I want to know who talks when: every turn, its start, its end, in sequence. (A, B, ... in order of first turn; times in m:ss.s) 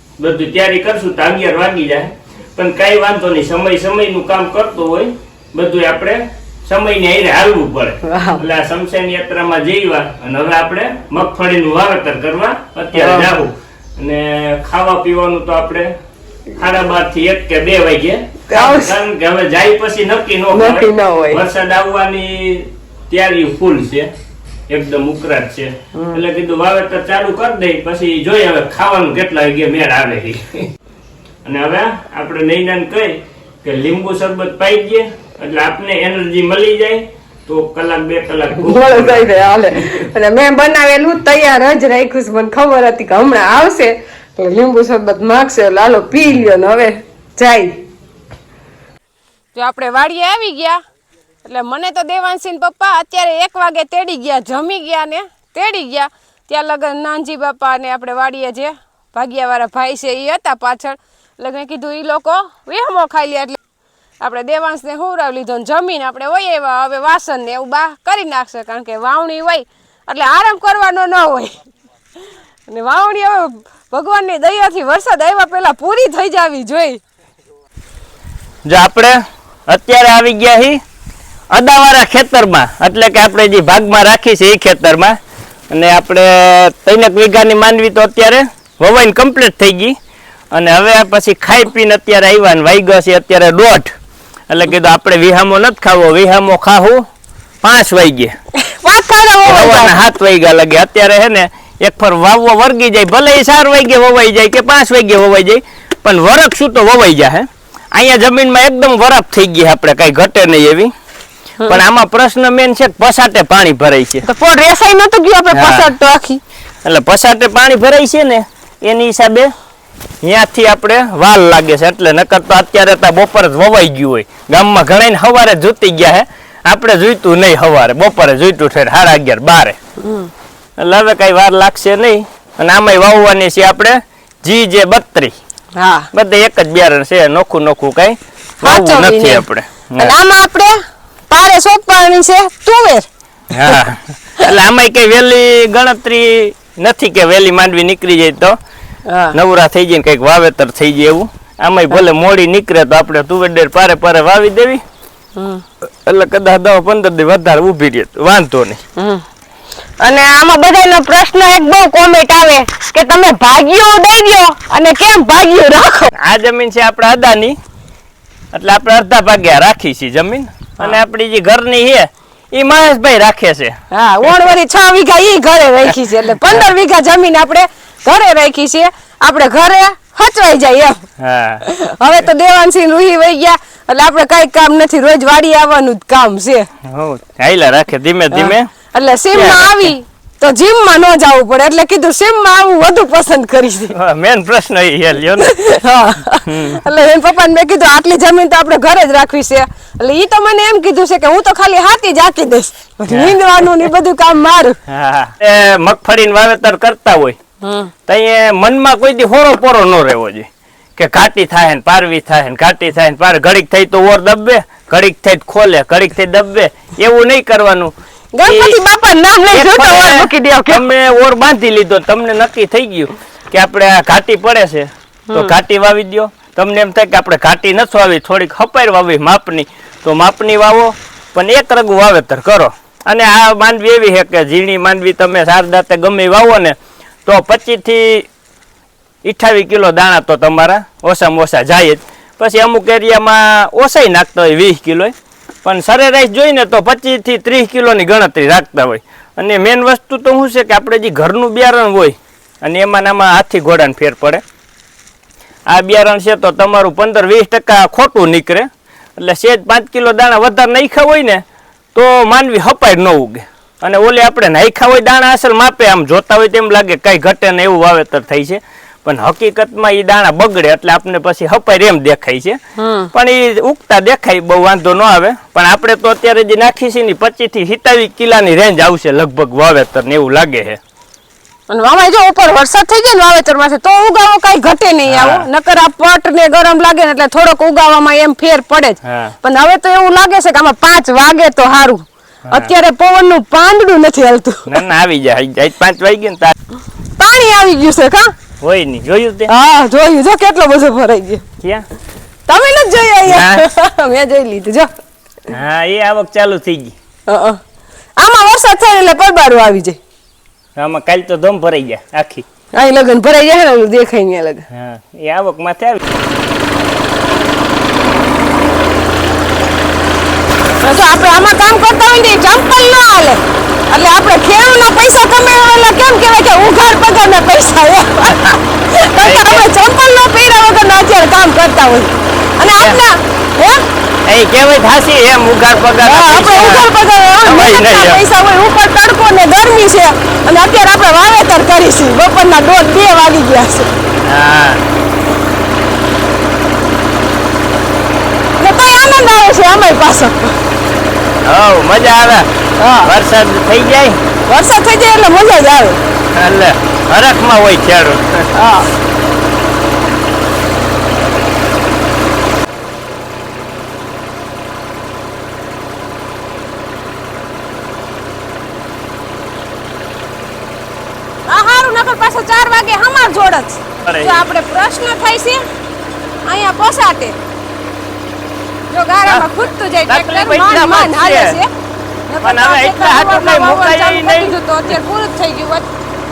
0:00.2-0:15.9 A
0:08.1-0:08.4 B
0:12.9-0:13.3 B
0:16.6-0:24.1 A
0:18.5-0:19.0 B
0:20.5-0:21.4 B
0:24.7-0:30.7 A
0:25.9-0:26.2 B
0:31.4-0:40.1 A
0:38.5-0:47.8 B
0:49.5-0:50.8 B
0:51.4-1:03.6 B
1:04.2-1:11.5 B
1:12.7-1:17.0 B
1:18.6-1:20.8 A
1:21.5-1:25.2 A
1:25.7-1:30.0 A
1:30.5-1:33.9 A
1:34.5-1:37.0 A
1:37.6-1:38.4 A
1:38.6-1:40.0 B
1:39.4-1:50.9 A
1:51.7-1:54.2 A
1:54.2-1:56.4 B
1:55.5-1:55.9 A
1:56.8-1:59.5 A
2:00.2-2:09.8 A
2:10.0-2:10.3 B
2:10.8-2:15.4 A
2:15.8-2:16.1 B
2:16.1-2:20.2 A
2:18.6-2:23.1 B
2:23.5-2:28.6 A
2:29.1-2:29.4 B
2:29.3-2:34.8 A
2:35.4-2:35.6 B
2:36.0-2:38.8 A
2:39.0-2:39.2 B
2:40.0-2:46.1 B
2:46.1-2:47.6 A
2:48.5-2:54.6 A
2:53.9-3:01.0 B
2:56.4-2:56.7 A
3:01.2-3:01.7 A
3:01.6-3:06.7 B
3:06.8-3:08.7 A
3:08.3-3:13.9 B
3:09.3-3:09.9 A
3:13.9-3:15.6 A
3:15.4-3:24.8 B
3:16.4-3:16.8 A
3:23.1-3:23.8 A
3:24.9-3:27.4 A
3:27.6-3:27.9 B
3:28.1-3:38.8 A
3:38.3-3:40.8 B
3:39.5-3:58.3 A
3:59.2-4:14.4 A
4:15.7-4:21.4 A
4:22.0-4:32.6 A
4:32.8-4:33.1 B
4:33.1-4:40.8 A
4:41.7-4:54.7 B
4:45.1-4:45.5 A
4:49.0-4:49.4 A
4:52.5-4:52.7 A
4:54.7-4:56.6 A
4:57.2-4:58.3 B
4:58.6-4:59.5 A
4:59.5-5:01.4 B
5:02.5-5:04.9 B
5:03.2-5:03.6 A
5:05.5-5:07.0 A
5:07.3-5:07.6 B
5:08.2-5:10.0 B
5:10.8-5:12.4 A
5:12.7-5:14.7 B
5:14.7-5:16.0 A
5:20.8-5:33.9 B
5:28.3-5:28.6 A
5:29.2-5:29.7 A
5:32.8-5:33.0 A
5:34.3-5:36.9 A
5:36.0-5:43.9 B
5:37.4-5:38.2 A
5:44.2-5:44.8 A
5:48.6-5:50.6 B
5:51.4-5:54.2 A
5:52.8-5:53.1 B
5:54.5-5:56.0 B
5:56.3-5:58.5 A
5:58.6-5:58.9 B
6:11.5-6:15.6 B
6:14.0-6:14.4 A
6:16.5-6:17.4 B
6:18.9-6:21.7 B
6:19.3-6:19.5 A
6:20.1-6:21.6 A
6:22.3-6:25.9 B
6:22.4-6:25.0 A